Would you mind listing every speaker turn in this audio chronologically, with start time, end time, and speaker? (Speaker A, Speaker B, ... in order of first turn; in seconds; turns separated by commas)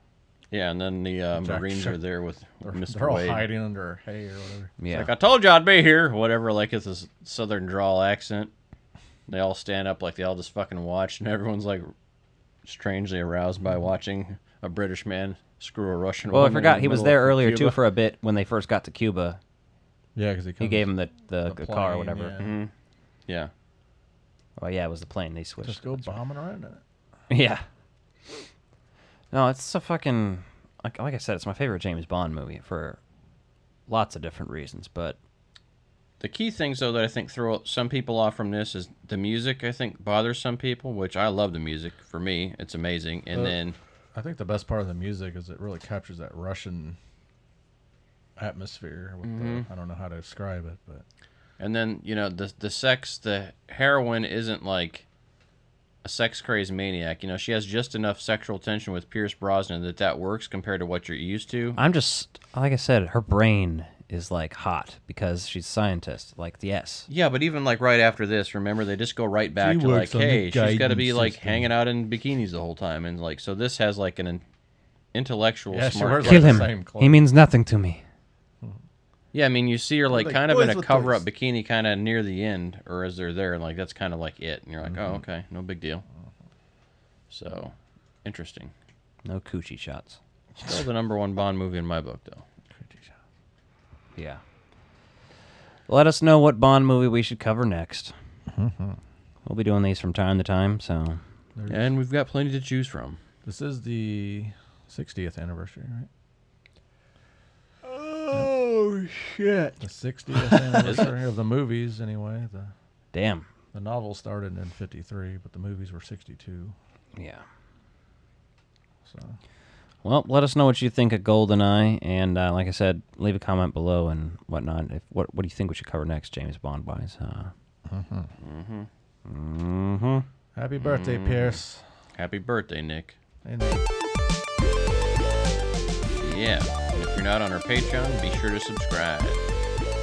Speaker A: 0.5-3.5, Speaker B: 1.4-2.0, Speaker B: 2.6-4.7, Speaker C: 4.8-5.1, Speaker A: 4.9-8.5, Speaker A: 9.3-11.9, Speaker A: 12.6-17.8, Speaker C: 16.3-19.4, Speaker B: 20.1-20.9, Speaker C: 20.6-22.4, Speaker B: 21.4-22.6, Speaker A: 22.4-22.7, Speaker C: 24.6-26.1, Speaker B: 25.6-26.8, Speaker C: 27.3-27.6, Speaker C: 29.3-33.0, Speaker C: 33.9-35.2, Speaker A: 36.2-43.8, Speaker B: 43.3-43.6, Speaker B: 44.1-47.0, Speaker B: 48.4-51.0, Speaker A: 49.2-49.7, Speaker A: 51.6-55.0, Speaker A: 56.0-61.8, Speaker C: 61.8-67.1, Speaker A: 67.1-74.4, Speaker B: 69.6-71.7, Speaker A: 75.1-76.7, Speaker B: 75.7-77.2, Speaker C: 76.2-78.0, Speaker A: 79.3-86.0, Speaker B: 80.1-81.2, Speaker B: 84.9-85.2, Speaker A: 87.3-88.7, Speaker C: 89.2-90.2, Speaker A: 90.6-92.4, Speaker B: 92.8-93.2, Speaker C: 94.2-94.4, Speaker C: 95.9-98.1, Speaker B: 98.5-99.0, Speaker C: 99.4-101.2, Speaker B: 101.6-101.9, Speaker A: 101.7-103.2, Speaker B: 103.4-106.1, Speaker C: 107.8-109.8, Speaker B: 109.8-112.7, Speaker C: 110.3-110.9, Speaker A: 110.8-111.1, Speaker C: 113.1-113.5, Speaker B: 113.7-116.7, Speaker C: 117.2-117.4, Speaker B: 119.0-119.4, Speaker C: 120.0-127.5, Speaker B: 127.9-128.3, Speaker A: 128.4-128.9, Speaker C: 129.2-130.2, Speaker B: 130.6-131.9, Speaker A: 130.8-131.6, Speaker A: 132.1-133.2, Speaker B: 133.4-133.8, Speaker A: 136.2-139.4